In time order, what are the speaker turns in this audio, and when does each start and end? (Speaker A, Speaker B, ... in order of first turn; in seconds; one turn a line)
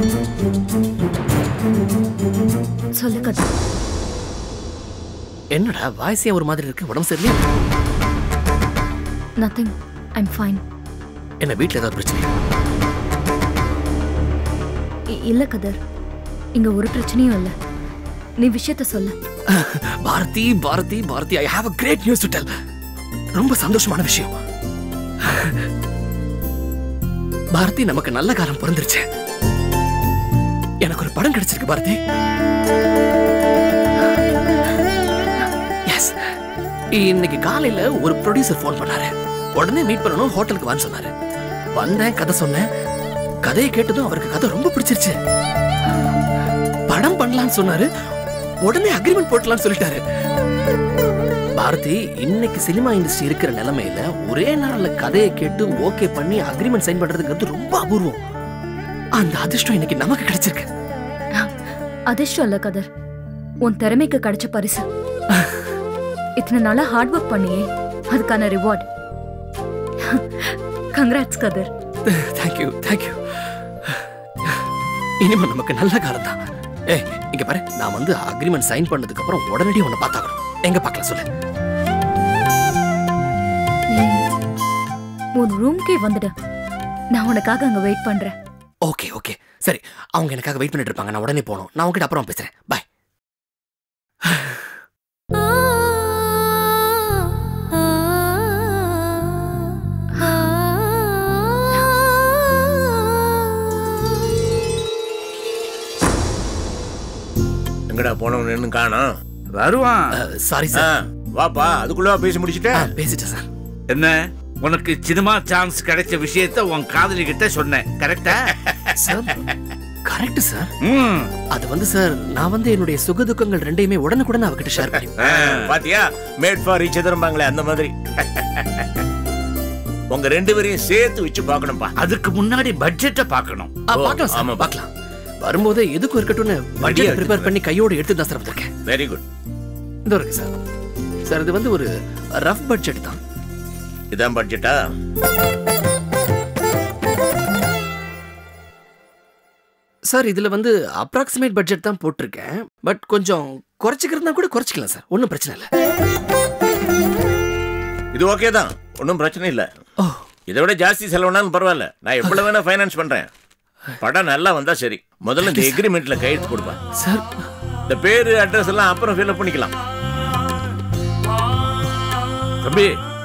Speaker A: 3.0-3.5
Speaker B: 5.5-7.4
Speaker A: 9.4-10.6
Speaker B: 11.4-12.3
Speaker A: 15.1-15.8
Speaker A: 16.6-17.5
Speaker A: 18.4-19.1
Speaker B: 19.5-22.5
Speaker B: 23.4-24.4
Speaker B: 25.2-25.6
Speaker B: 27.5-29.0
Speaker B: 30.8-32.0
Speaker B: 35.9-36.1
Speaker B: 36.9-41.1
Speaker B: 41.8-42.6
Speaker B: 43.4-45.1
Speaker B: 46.9-47.9
Speaker B: 48.6-50.0
Speaker B: 51.6-58.2
Speaker B: 59.2-60.6
Speaker A: 62.1-62.9
Speaker A: 63.6-64.8
Speaker B: 65.3-65.7
Speaker A: 66.4-68.8
Speaker A: 70.0-71.7
Speaker B: 72.0-74.6
Speaker B: 75.2-81.2
Speaker A: 83.9-84.2
Speaker A: 85.4-86.3
Speaker A: 87.1-88.3
Speaker B: 88.8-92.8
Speaker B: 94.2-94.7
Speaker C: 107.9-109.1
Speaker D: 109.5-110.1
Speaker B: 110.1-110.9
Speaker C: 110.7-112.9
Speaker B: 112.7-113.4
Speaker D: 113.9-118.5
Speaker B: 119.0-119.4
Speaker B: 120.0-120.7
Speaker D: 120.8-121.3
Speaker B: 121.5-125.2
Speaker C: 125.2-127.9
Speaker D: 125.2-125.7
Speaker C: 130.1-131.9
Speaker D: 132.0-133.7
Speaker B: 133.9-134.9
Speaker C: 133.9-134.7
Speaker B: 135.4-138.7
Speaker C: 136.8-137.5
Speaker C: 138.8-139.2
Speaker B: 140.1-140.5
Speaker B: 141.2-143.2
Speaker C: 144.1-144.9
Speaker B: 150.1-155.7
Speaker C: 158.1-159.7
Speaker C: 160.5-163.3
Speaker C: 164.0-166.8
Speaker B: 165.4-165.8
Speaker B: 166.9-167.4
Speaker C: 167.9-169.7
Speaker D: 172.6-172.9